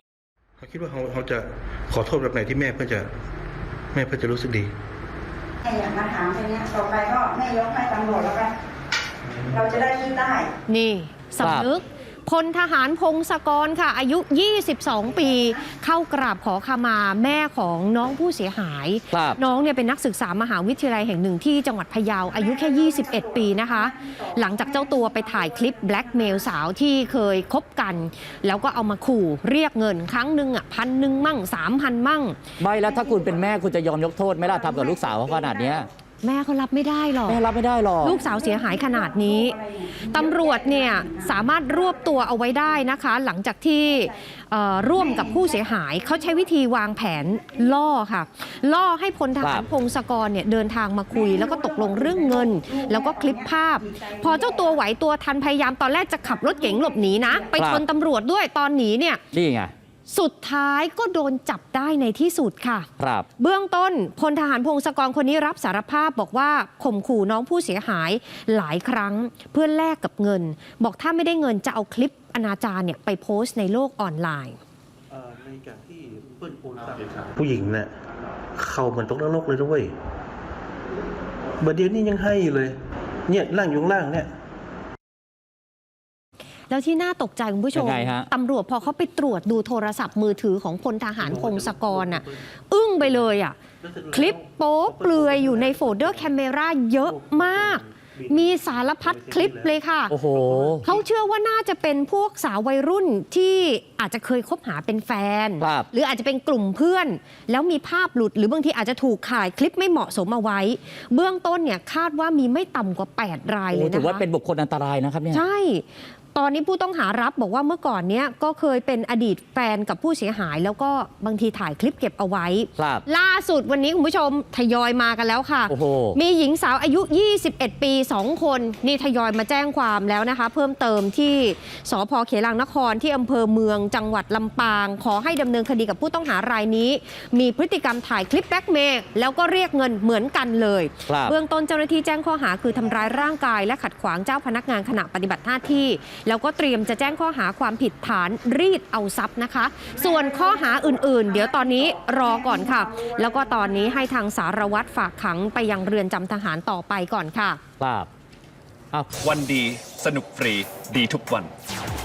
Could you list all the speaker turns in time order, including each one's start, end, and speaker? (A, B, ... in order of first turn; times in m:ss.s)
0:00.6-0:03.1 A
0:03.9-0:04.7 A
0:05.6-0:08.5 B
0:09.5-0:10.5 B
0:10.6-0:32.4 C
0:11.4-0:11.7 D
0:19.1-0:19.4 D
0:32.6-0:35.9 D
0:36.2-0:37.4 C
0:37.3-0:38.2 D
0:38.0-0:59.2 C
0:49.4-0:49.7 D
0:57.6-0:57.8 D
0:59.3-0:59.7 D
1:00.1-1:14.6 C
1:03.0-1:03.3 D
1:15.1-1:17.9 A
1:18.6-1:19.9 A
1:21.6-1:24.3 A
1:26.7-1:33.6 C
1:27.7-1:28.3 D
1:31.2-1:32.4 A
1:33.8-1:36.3 A
1:34.1-1:40.2 C
1:37.1-1:39.7 A
1:40.1-1:40.9 D
1:40.3-1:41.0 A
1:40.8-1:54.2 C
1:45.6-1:45.9 D
1:53.7-1:55.4 D
1:55.3-2:37.6 C
2:02.8-2:03.0 D
2:05.7-2:06.2 D
2:21.1-2:21.4 D
2:37.8-2:38.1 D
2:39.2-2:41.5 E